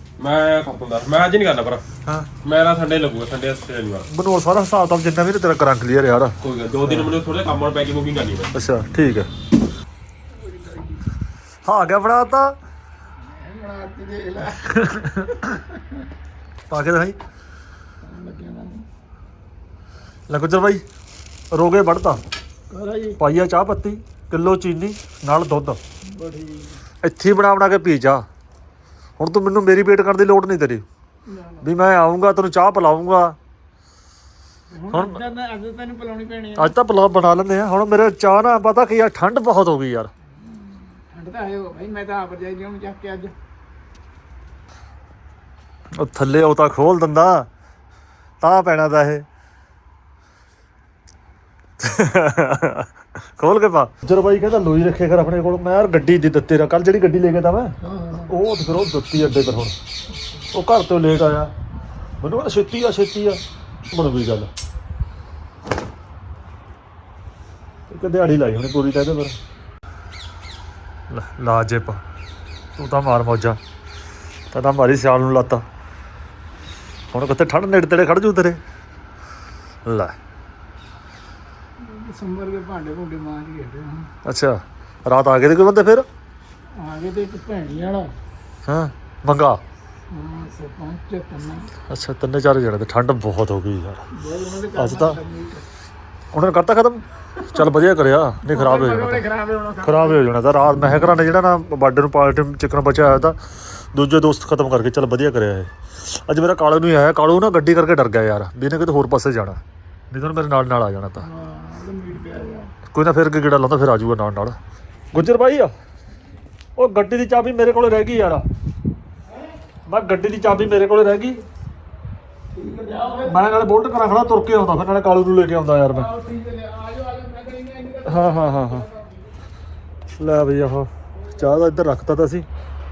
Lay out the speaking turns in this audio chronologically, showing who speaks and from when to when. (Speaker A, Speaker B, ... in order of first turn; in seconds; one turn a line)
Speaker A: 0.2-1.8
Speaker A: 2.4-4.1
Speaker B: 4.1-7.1
Speaker A: 6.4-8.5
Speaker B: 8.5-9.3
Speaker C: 10.3-11.0
Speaker B: 11.6-12.6
Speaker C: 13.2-14.6
Speaker B: 14.6-15.4
Speaker C: 15.5-16.0
Speaker B: 16.7-17.2
Speaker C: 18.0-18.8
Speaker B: 20.3-20.8
Speaker B: 21.5-22.2
Speaker C: 22.7-23.2
Speaker B: 23.2-25.8
Speaker C: 26.1-26.8
Speaker B: 27.0-28.2
Speaker B: 29.2-30.9
Speaker C: 31.3-31.6
Speaker B: 31.6-33.4
Speaker C: 34.7-36.7
Speaker B: 34.9-35.2
Speaker B: 36.6-40.1
Speaker C: 40.4-43.3
Speaker B: 45.9-47.5
Speaker B: 48.4-49.2
Speaker B: 51.8-57.8
Speaker C: 57.8-58.3
Speaker B: 58.3-59.8
Speaker B: 60.5-61.5
Speaker B: 62.2-64.5
Speaker B: 67.9-69.4
Speaker B: 71.1-72.0
Speaker B: 72.8-73.6
Speaker B: 74.5-75.6
Speaker B: 77.1-78.6
Speaker B: 79.9-80.1
Speaker C: 81.8-84.1
Speaker B: 84.2-86.1
Speaker C: 86.8-88.1
Speaker B: 88.7-89.6
Speaker C: 90.1-91.7
Speaker B: 91.9-94.0
Speaker C: 94.1-95.6
Speaker B: 94.8-95.2
Speaker B: 96.3-99.2
Speaker C: 98.5-100.2
Speaker B: 99.8-109.6
Speaker B: 110.1-111.2
Speaker C: 111.2-112.7
Speaker B: 112.9-114.6
Speaker B: 115.1-115.7
Speaker B: 116.8-118.5
Speaker B: 119.9-121.4
Speaker C: 122.5-123.4
Speaker B: 123.2-126.1
Speaker C: 125.9-129.2
Speaker B: 128.1-128.9
Speaker B: 130.2-132.5